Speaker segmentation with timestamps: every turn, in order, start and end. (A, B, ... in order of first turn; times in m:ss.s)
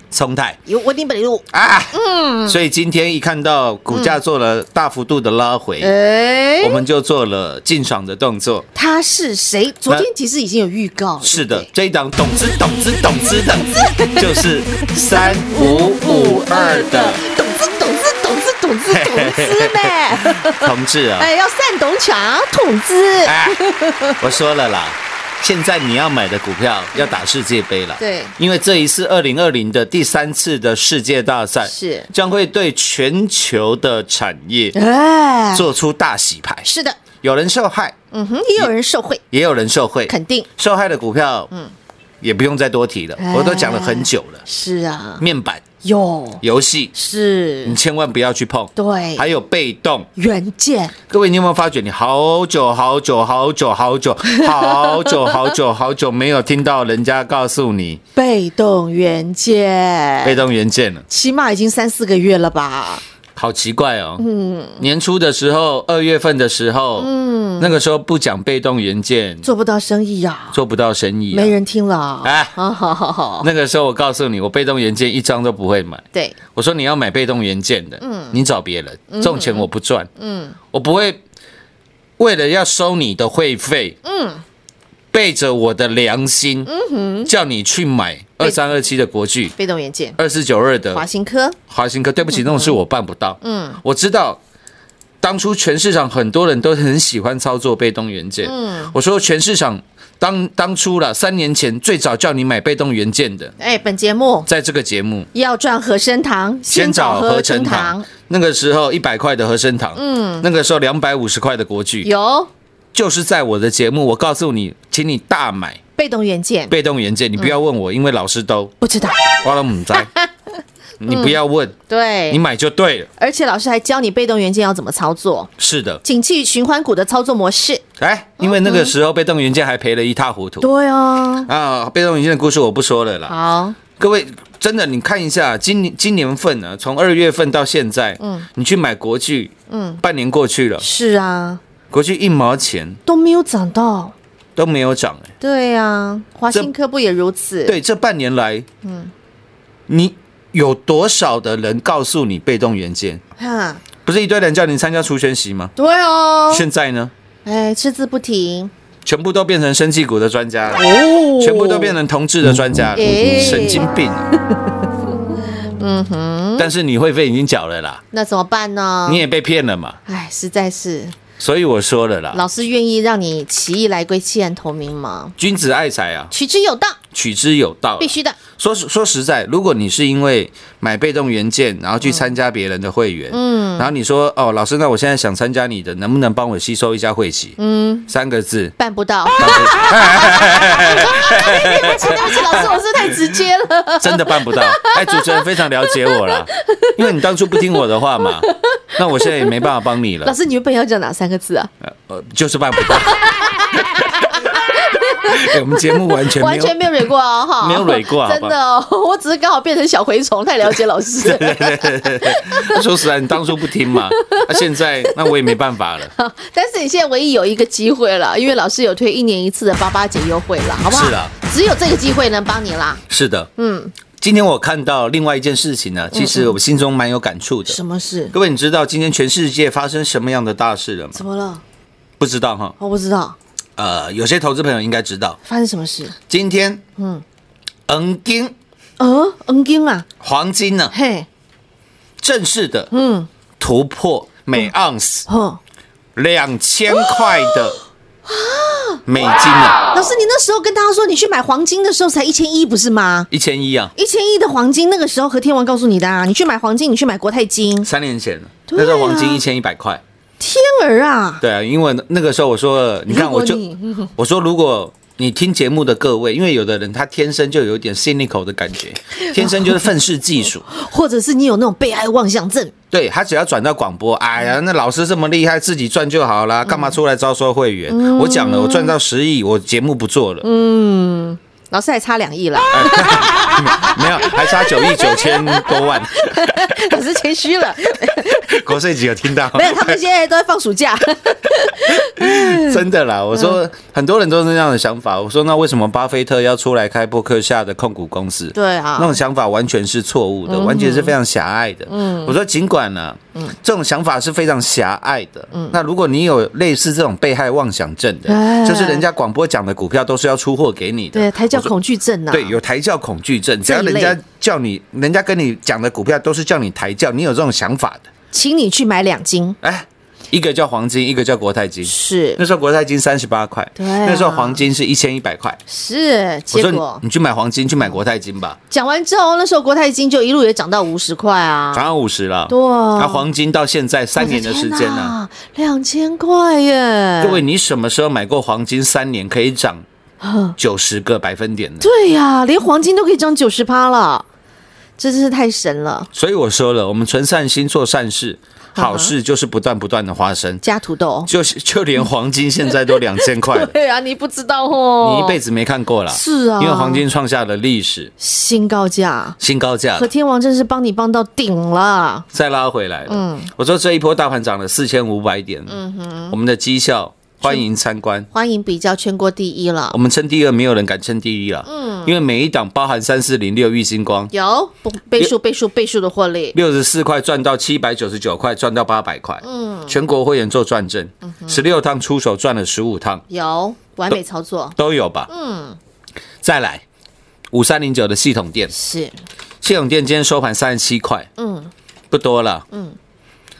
0:00.1-0:00.6 A
0:00.7-0:02.6 B
0:01.5-0:02.0 A
0:02.5-0:05.9 A
0:03.9-0:04.2 B
0:05.8-0:06.8 B
0:06.6-0:08.6 A
0:08.7-0:11.7 B
0:11.2-0:17.2 A
0:13.7-0:20.6 B
0:18.9-0:21.3 A
0:21.2-0:24.2 B
0:23.2-0:23.6 A
0:24.2-0:34.7 A
0:28.0-0:28.3 B
0:31.6-0:32.1 B
0:34.7-0:35.6 B
0:35.5-0:36.7 A
0:36.6-0:37.0 B
0:37.2-0:37.9 A
0:38.1-0:39.2 B
0:39.3-0:41.5 A
0:40.1-0:40.5 B
0:42.2-0:44.4 A
0:43.2-0:45.2 B
0:45.2-0:45.6 A
0:45.8-0:46.4 B
0:46.4-0:46.9 A
0:46.9-0:47.8 B
0:47.6-0:50.1 A
0:48.8-0:49.3 B
0:50.2-0:50.9 B
0:51.1-0:58.0 A
0:54.3-0:55.5 B
0:58.2-1:00.4 B
1:00.2-1:01.0 A
1:01.1-1:03.0 B
1:03.4-1:04.2 A
1:04.2-1:04.8 B
1:04.8-1:09.4 A
1:07.0-1:07.8 B
1:09.4-1:10.6 B
1:10.5-1:11.5 A
1:11.3-1:13.5 B
1:12.2-1:12.6 A
1:13.4-1:16.0 A
1:16.5-1:20.1 A
1:18.0-1:18.4 B
1:19.1-1:20.6 B
1:20.7-1:21.2 A
1:22.2-1:24.0 A
1:24.0-1:24.4 B
1:25.1-1:26.7 A
1:26.6-1:27.3 B
1:27.2-1:29.5 A
1:29.6-1:30.2 B
1:30.2-1:31.0 A
1:30.9-1:31.6 B
1:31.7-1:34.4 A
1:32.3-1:32.7 B
1:33.4-1:33.8 B
1:35.2-1:43.5 A
1:38.4-1:38.9 B
1:43.6-1:44.5 B
1:44.5-1:45.3 A
1:45.3-1:48.1 B
1:46.7-1:52.1 A
1:50.0-1:50.5 B
1:52.0-1:52.5 B
1:52.9-1:55.8 A
1:56.0-1:56.7 B
1:56.7-1:58.7 A
1:58.8-1:59.3 B
1:59.4-2:00.1 A
1:59.9-2:00.3 B
2:01.0-2:01.7 A
2:01.1-2:01.4 B
2:01.9-2:02.4 B
2:02.3-2:03.1 A
2:03.2-2:05.5 B
2:05.6-2:06.0 A
2:06.0-2:07.8 B
2:08.0-2:10.7 A
2:08.4-2:08.9 B
2:10.6-2:11.5 B
2:11.4-2:13.3 A
2:13.3-2:13.8 B
2:14.0-2:20.8 A
2:18.2-2:18.5 B
2:19.7-2:20.0 B
2:20.8-2:21.6 B
2:21.9-2:23.0 A
2:23.0-2:24.1 B
2:24.6-2:25.3 A
2:25.4-2:27.8 B
2:27.6-2:28.7 A
2:28.8-2:29.1 B
2:29.9-2:33.2 A
2:33.4-2:33.8 B
2:34.0-2:35.7 A
2:35.8-2:36.6 B
2:36.5-2:37.1 A
2:37.4-2:38.7 B
2:39.0-2:44.3 A
2:40.7-2:42.0 B
2:42.9-2:44.0 B
2:45.8-2:46.7 B
2:46.6-2:48.0 A
2:48.1-2:49.2 B
2:49.0-2:50.0 A
2:50.1-2:51.1 B
2:51.4-2:52.4 A
2:52.3-2:55.3 B
2:55.4-2:56.3 A
2:56.3-2:57.0 B
2:57.1-3:07.6 A
2:58.0-2:58.4 B
3:02.0-3:02.3 B
3:03.3-3:03.9 B
3:07.6-3:08.1 B
3:08.1-3:08.7 A
3:08.8-3:19.7 B
3:09.4-3:13.2 A
3:14.0-3:20.3 A
3:20.2-3:21.7 B
3:21.8-3:24.5 A
3:22.9-3:32.8 B
3:25.2-3:27.0 A
3:27.6-3:28.6 A
3:31.2-3:36.1 A
3:33.9-3:35.5 B
3:36.1-3:43.0 B
3:40.9-3:41.3 A
3:43.1-3:43.5 A
3:43.6-3:43.9 B
3:44.2-3:51.2 A
3:46.1-3:46.6 B
3:47.7-3:48.3 B
3:51.1-3:51.6 B
3:52.2-3:52.7 A
3:52.8-3:53.4 B
3:53.8-3:55.4 A
3:55.4-3:56.1 B
3:56.3-3:56.8 A
3:57.0-3:57.2 B
3:57.9-3:58.6 A
3:59.0-4:00.1 B
4:00.2-4:00.9 A
4:00.9-4:01.3 B
4:02.2-4:02.9 A
4:02.9-4:03.3 B
4:03.6-4:05.3 A
4:05.3-4:05.6 B
4:06.2-4:07.8 A
4:06.9-4:09.0 B
4:09.0-4:09.8 A
4:09.9-4:13.3 B
4:13.3-4:13.9 A
4:14.0-4:17.9 B
4:17.8-4:20.0 A
4:18.7-4:19.4 B
4:20.4-4:21.4 B
4:21.4-4:23.6 A
4:23.1-4:24.1 B
4:24.2-4:30.6 A
4:29.2-4:29.9 B
4:30.7-4:32.7 B
4:32.9-4:40.5 A
4:36.6-4:37.0 B
4:37.9-4:39.0 B
4:40.4-4:48.6 B
4:42.7-4:46.9 A
4:48.2-4:50.0 A
4:49.5-4:52.8 B
4:51.8-5:11.7 A
4:58.5-4:59.2 B
5:00.5-5:01.2 B
5:01.9-5:02.3 B
5:05.5-5:05.8 B
5:08.2-5:09.0 B
5:11.1-5:12.6 B
5:12.3-5:18.1 A
5:13.6-5:14.2 B
5:18.3-5:19.6 B
5:19.6-5:25.6 A
5:21.8-5:22.4 B
5:23.8-5:24.6 B
5:25.7-5:27.0 B
5:26.5-5:28.6 A
5:28.7-5:31.9 B
5:31.7-5:35.1 A
5:32.5-5:33.2 B
5:34.2-5:37.4 B
5:37.2-5:39.8 A
5:40.2-5:40.6 B
5:40.6-5:41.8 A
5:41.8-5:44.2 B
5:45.0-5:46.1 B
5:46.1-5:50.6 A
5:48.8-5:49.1 B
5:50.6-5:51.3 B
5:51.3-5:53.7 A
5:52.9-5:55.4 B
5:55.0-5:58.1 A
5:56.1-5:57.0 B
5:58.2-5:59.4 B
5:59.4-6:00.1 A
5:59.9-6:02.2 B
6:02.3-6:05.8 A
6:03.1-6:03.5 B
6:05.7-6:06.4 B
6:06.3-6:08.3 A
6:08.3-6:10.0 B
6:09.9-6:14.3 A
6:11.6-6:12.1 B
6:14.3-6:16.6 B
6:16.5-6:23.2 A
6:19.4-6:20.0 B
6:21.3-6:21.6 B
6:23.3-6:24.7 B
6:24.8-6:25.3 A
6:25.3-6:25.8 B
6:26.4-6:26.8 A
6:27.5-6:28.7 A
6:28.7-6:29.1 B
6:29.6-6:31.3 A
6:31.4-6:31.7 B
6:32.1-6:32.6 A
6:32.7-6:33.0 B